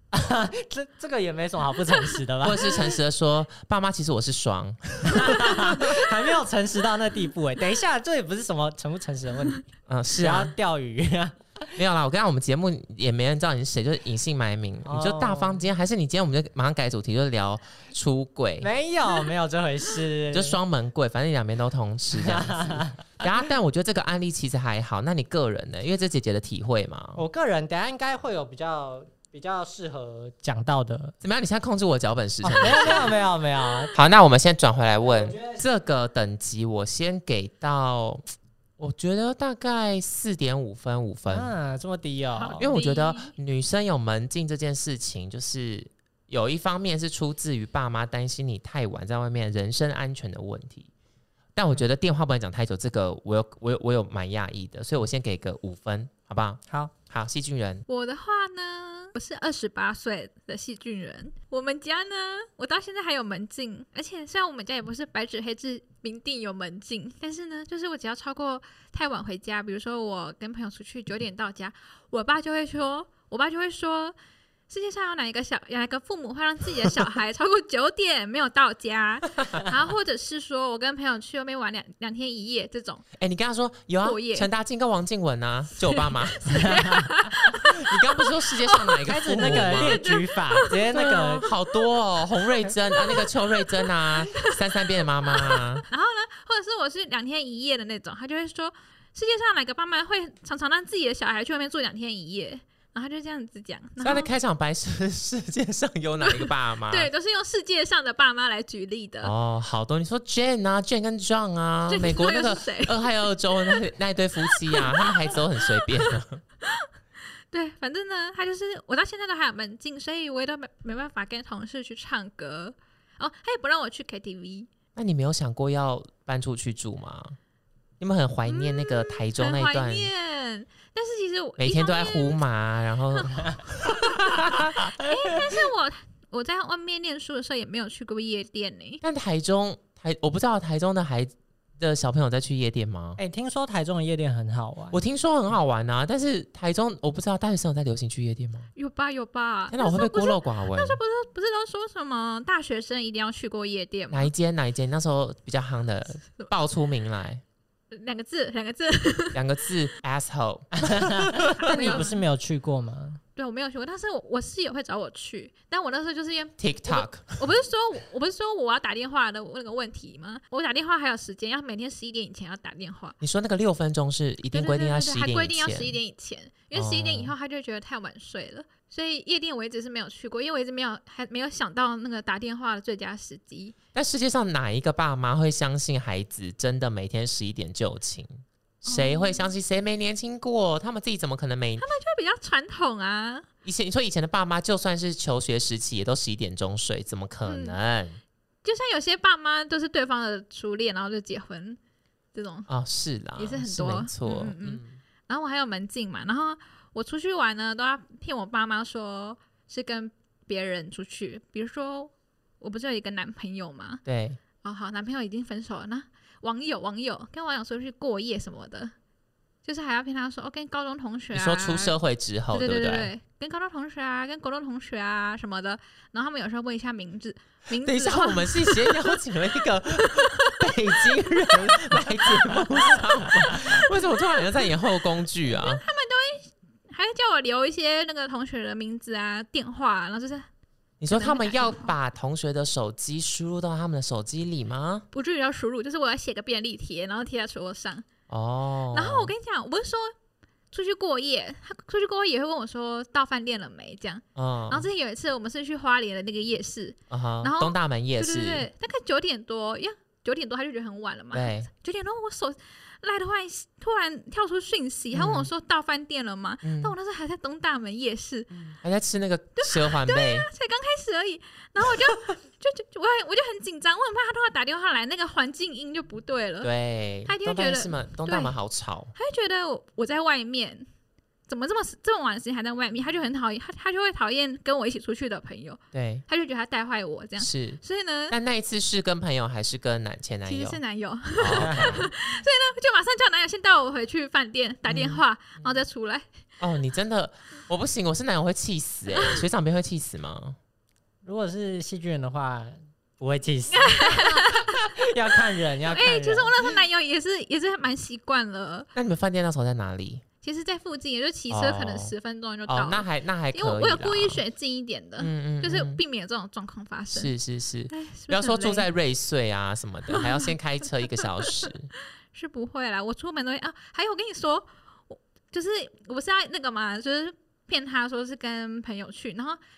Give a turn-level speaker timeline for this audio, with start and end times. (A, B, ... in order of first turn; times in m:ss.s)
0:00.1-0:02.9 A
0:02.4-0:06.0 B
0:05.0-0:09.7 A
0:09.9-0:10.5 B
0:10.2-0:11.8 A
0:11.8-0:18.7 B
0:14.8-0:15.6 A
0:18.6-0:20.6 A
0:20.3-0:27.2 B
0:22.1-0:23.1 A
0:27.2-0:31.2 A
0:31.2-0:33.1 B
0:32.4-0:33.9 A
0:32.6-0:33.1 C
0:33.9-0:38.3 B
0:35.1-0:35.6 A
0:38.8-0:41.5 B
0:41.3-0:42.7 A
0:42.4-0:43.4 C
0:42.6-0:50.9 B
0:51.6-0:57.8 B
0:56.7-0:56.9 A
0:57.9-1:14.2 C
1:14.7-1:23.1 C
1:23.2-1:30.0 B
1:24.0-1:24.5 C
1:25.8-1:29.1 C
1:26.6-1:27.1 A
1:29.1-1:31.5 A
1:29.6-1:31.9 C
1:30.9-1:35.9 B
1:32.5-1:44.3 C
1:44.0-1:47.1 B
1:46.2-1:49.3 C
1:49.2-1:56.4 B
1:51.9-1:53.1 C
1:54.4-1:55.9 C
1:56.6-1:56.9 C
1:57.5-2:04.7 C
2:05.0-2:07.4 B
2:08.0-2:10.1 B
2:08.5-2:12.4 C
2:11.6-2:14.9 B
2:14.0-2:19.0 C
2:19.0-2:23.2 B
2:23.2-2:25.0 A
2:24.9-2:28.7 B
2:28.8-2:34.3 C
2:29.7-2:31.0 B
2:34.1-2:37.4 B
2:37.9-2:39.5 C
2:39.3-2:42.1 B
2:40.8-2:43.2 A
2:41.6-2:42.2 C
2:43.4-2:53.2 C
2:46.6-2:47.4 B
2:53.2-2:56.0 B
2:54.5-3:03.8 C
2:56.7-2:57.3 B
3:04.0-3:11.9 B
3:08.9-3:09.5 C
3:11.8-3:13.5 C
3:13.6-3:18.2 B
3:17.5-3:17.8 C
3:18.6-3:21.8 C
3:22.3-3:22.7 C
3:22.7-3:25.0 B
3:23.4-3:34.0 C
3:34.1-3:34.4 B
3:34.6-3:38.9 C
3:39.6-3:42.0 C
3:41.3-3:43.1 B
3:42.5-3:49.2 C
3:47.8-3:55.8 B
3:50.0-3:54.7 C
3:55.5-4:00.5 C
4:01.0-4:05.1 B
4:01.1-4:01.9 C
4:05.1-4:08.1 C
4:08.3-4:09.3 B
4:08.9-4:10.1 C
4:10.7-4:28.5 C
4:14.4-4:14.9 B
4:17.1-4:18.7 B
4:21.3-4:21.7 B
4:25.1-4:25.5 B
4:26.6-4:27.0 B
4:28.7-4:30.5 B
4:29.6-4:36.7 C
4:36.6-4:39.1 B
4:37.3-4:38.6 C
4:39.2-4:40.9 C
4:41.5-4:48.4 C
4:45.9-4:46.2 B
4:47.4-4:50.8 B
4:50.5-4:56.3 C
4:51.4-4:52.1 B
4:51.6-4:52.1 A
4:54.9-4:55.8 B
4:56.6-5:00.6 B
4:59.2-4:59.4 C
5:01.2-5:06.6 A
5:03.7-5:04.9 C
5:05.9-5:08.9 C
5:09.0-5:10.2 B
5:10.4-5:17.3 C
5:11.5-5:12.1 B
5:12.7-5:14.4 B
5:15.2-5:16.0 B
5:17.1-5:21.9 B
5:17.9-5:18.9 C
5:20.1-5:20.5 C
5:21.4-5:21.7 C
5:22.3-5:29.6 C